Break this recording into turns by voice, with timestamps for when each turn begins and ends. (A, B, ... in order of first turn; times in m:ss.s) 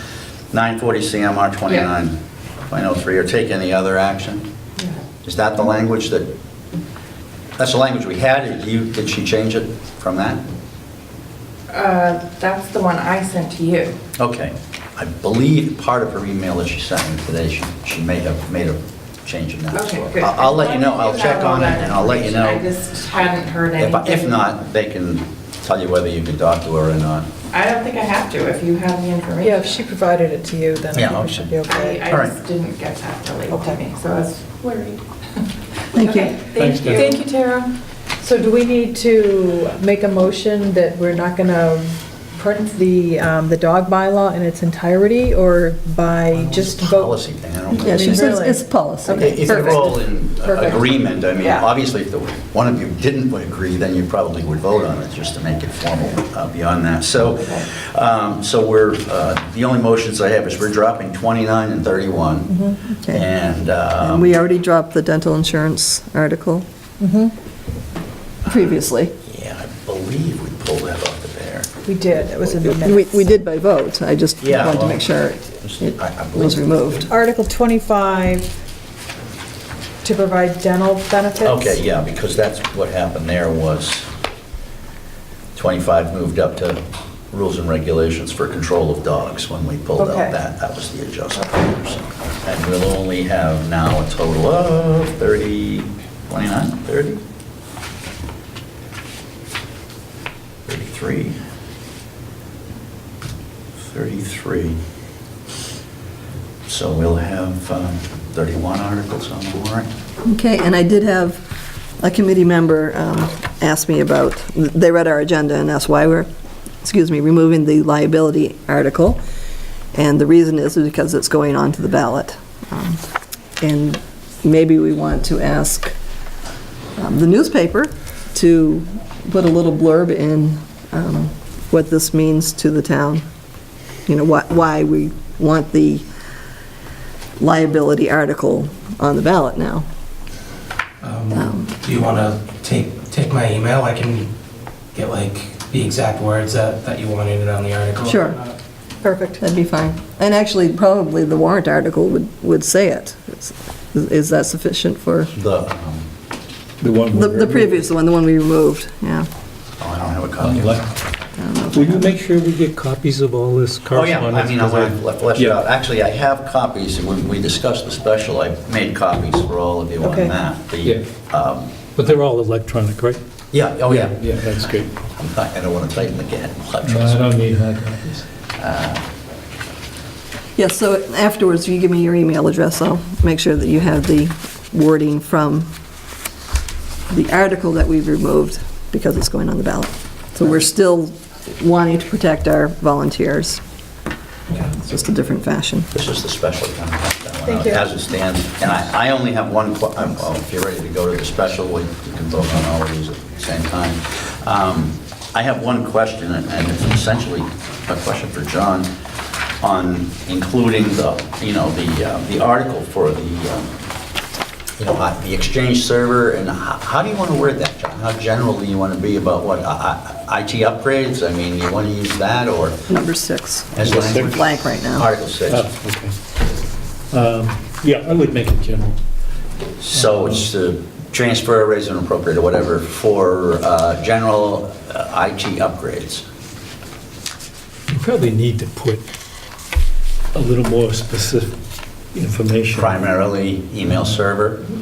0:00.5-0:02.2 A
0:02.7-0:04.4 A
0:05.2-0:06.3 A
0:07.6-0:10.4 A
0:11.7-0:14.0 B
0:14.2-0:22.6 A
0:19.7-0:24.4 B
0:23.8-0:27.3 A
0:27.5-0:29.8 B
0:29.4-0:32.0 C
0:30.9-0:31.5 A
0:31.7-0:37.7 B
0:32.1-0:32.4 A
0:33.5-0:33.8 C
0:36.0-0:36.4 D
0:36.5-0:37.2 E
0:36.9-0:37.5 C
0:38.2-0:47.1 C
0:46.4-0:48.4 A
0:47.7-0:49.8 D
0:47.7-0:50.8 C
0:49.1-1:04.4 A
1:02.5-1:02.8 C
1:04.0-1:06.7 D
1:07.0-1:07.3 C
1:08.5-1:09.1 D
1:09.3-1:12.8 A
1:11.9-1:13.3 C
1:12.8-1:17.1 D
1:14.4-1:15.0 A
1:15.6-1:17.1 A
1:17.1-1:18.5 C
1:20.0-1:21.8 C
1:21.4-1:24.1 A
1:25.6-1:26.8 A
1:27.3-1:37.2 A
1:30.0-1:30.4 C
1:40.7-1:41.4 A
1:43.8-1:44.8 A
1:46.7-1:49.9 A
1:50.2-1:51.4 D
1:52.0-1:56.3 D
1:56.8-1:59.2 D
1:59.9-2:03.0 D
2:03.6-2:06.0 D
2:07.0-2:13.2 D
2:14.1-2:16.0 D
2:17.4-2:19.8 D
2:21.0-2:24.3 F
2:21.3-2:21.7 D
2:24.9-2:28.6 F
2:28.0-2:28.4 D
2:29.0-2:29.4 C
2:29.4-2:35.3 D
2:35.4-2:36.1 A
2:36.8-2:37.8 E
2:37.1-2:39.3 D
2:39.8-2:40.8 A
2:40.4-2:40.9 E
2:41.4-2:42.2 D
2:41.7-2:45.6 E
2:43.9-2:51.7 A
2:50.0-2:50.3 C
2:52.0-2:53.2 E
2:53.5-2:54.2 A
2:53.8-2:54.9 E
2:55.2-2:57.2 A
2:56.8-2:58.3 E
2:58.6-2:59.0 A
3:00.6-3:05.7 D
3:07.1-3:13.6 D
3:14.6-3:15.9 D
3:15.9-3:28.9 A
3:17.5-3:17.9 C
3:29.6-3:33.7 A
3:34.8-3:42.9 A
3:42.9-3:45.1 D
3:43.7-3:45.7 A
3:43.8-3:44.3 E
3:45.5-3:46.2 E
3:47.1-3:49.0 E
3:49.8-3:56.2 A
3:49.9-3:50.5 E
3:57.9-3:59.0 E
4:00.3-4:01.5 E
4:02.1-4:03.0 E
4:02.8-4:04.7 A